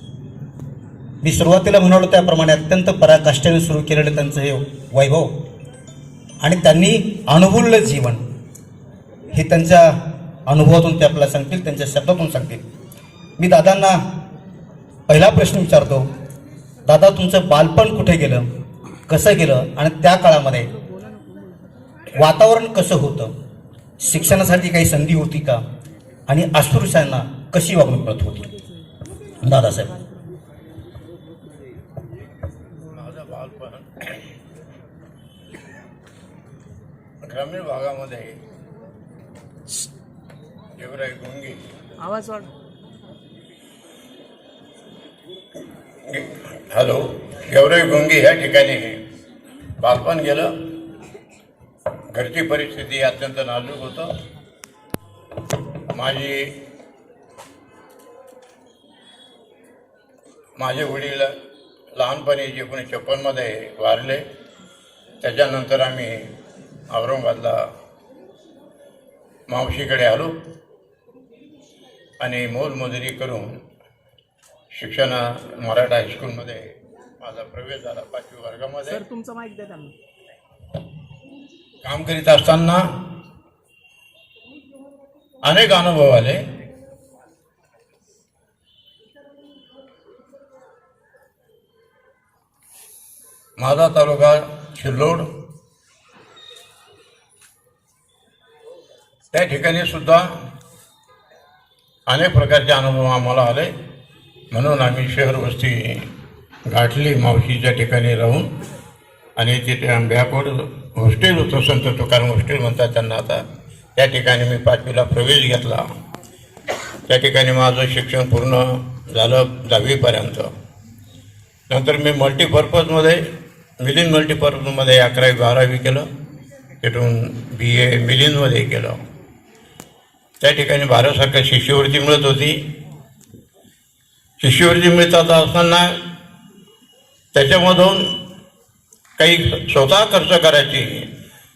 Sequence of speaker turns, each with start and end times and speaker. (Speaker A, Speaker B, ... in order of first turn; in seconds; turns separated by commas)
Speaker A: 1.2-5.3, Speaker A: 6.4-8.2, Speaker A: 9.3-9.9, Speaker A: 10.5-12.7, Speaker A: 13.4-14.0, Speaker A: 15.1-16.1, Speaker A: 16.9-18.5, Speaker A: 19.1-20.7, Speaker B: 20.8-21.6, Speaker A: 22.2-23.3, Speaker A: 24.0-25.6, Speaker A: 26.3-28.5, Speaker A: 29.4-29.9, Speaker C: 32.9-34.2, Speaker C: 37.2-38.4, Speaker C: 40.8-41.6, Speaker B: 42.0-42.5, Speaker C: 46.0-49.0, Speaker C: 49.8-50.5, Speaker C: 52.1-54.1, Speaker C: 55.9-56.5, Speaker C: 60.6-61.3, Speaker C: 62.0-64.2, Speaker C: 65.2-66.3, Speaker C: 66.9-67.7, Speaker C: 69.5-70.3, Speaker C: 72.2-73.6, Speaker C: 74.7-79.0, Speaker B: 78.8-79.9, Speaker C: 81.8-82.8, Speaker C: 85.4-86.4, Speaker C: 93.6-95.3, Speaker C: 99.3-100.3, Speaker C: 102.1-103.7, Speaker C: 104.5-106.1, Speaker C: 106.7-108.5, Speaker C: 109.4-113.4, Speaker C: 114.0-115.9, Speaker C: 117.1-120.5, Speaker C: 121.7-123.2, Speaker C: 123.8-126.1, Speaker C: 126.8-129.0, Speaker C: 130.4-132.6, Speaker C: 134.4-136.0, Speaker C: 137.3-138.1, Speaker C: 139.2-141.1